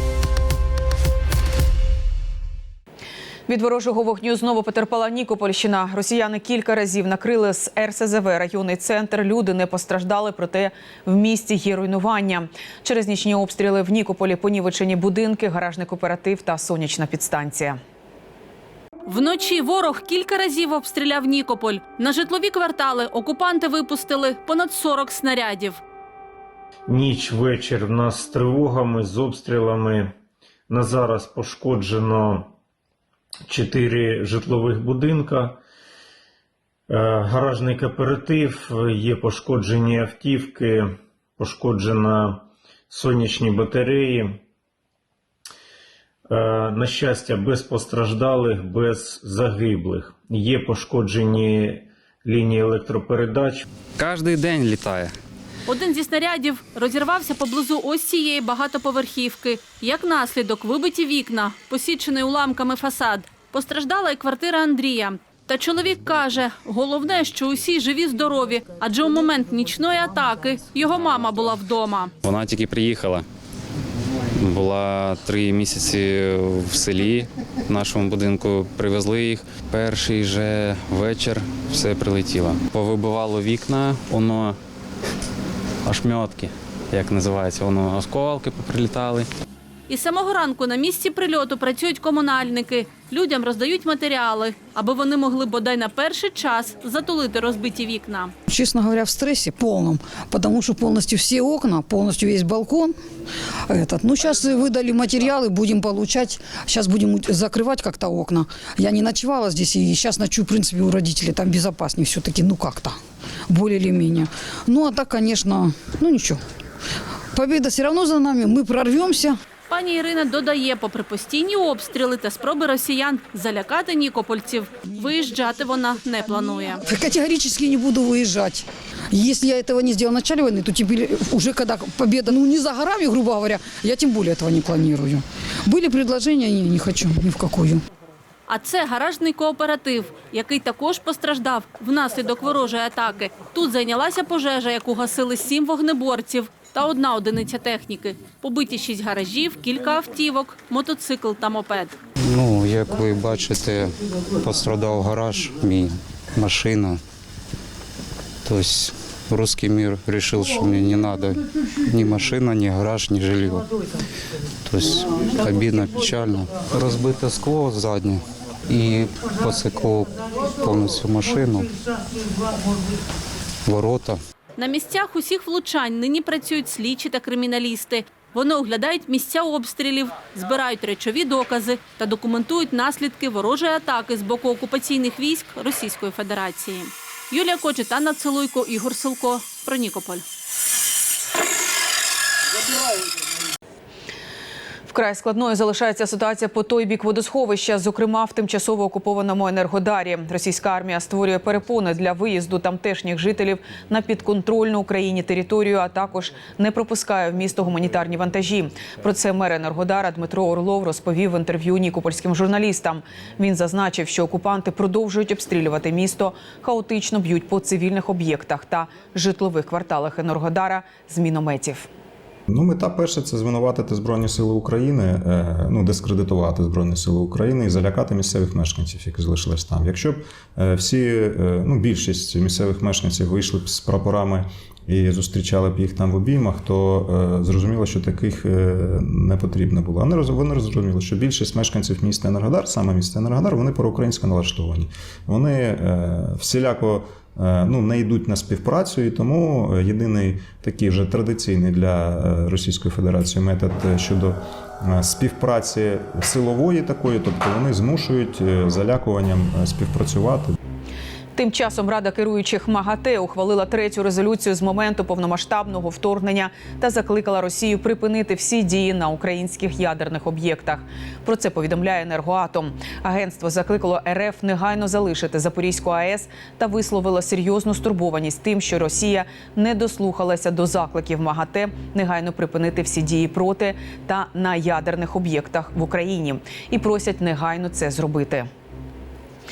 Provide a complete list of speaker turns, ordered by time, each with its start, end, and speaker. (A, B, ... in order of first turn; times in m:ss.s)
0:03.5-0:17.8 A
0:19.1-0:25.8 B
0:26.9-0:30.1 C
0:30.7-0:32.5 C
0:33.5-0:35.6 C
0:36.9-0:44.4 C
0:46.3-0:53.6 C
0:54.0-0:55.1 D
0:55.7-1:12.1 B
1:12.2-1:13.2 D
1:14.4-1:24.6 D
1:25.8-1:29.3 D
1:29.9-1:38.3 B
1:38.5-1:42.9 E
1:43.7-1:53.0 E
1:53.5-1:56.4 E
1:57.3-1:59.4 E
1:59.7-2:06.8 B
2:06.8-2:17.8 E
2:18.5-2:31.9 B
2:32.2-2:37.0 F
2:38.4-2:43.6 F
2:44.6-2:51.7 F
2:53.6-2:54.2 F
2:54.6-3:10.2 B
3:14.9-3:41.9 A
3:42.5-4:20.5 G
4:21.3-4:48.5 A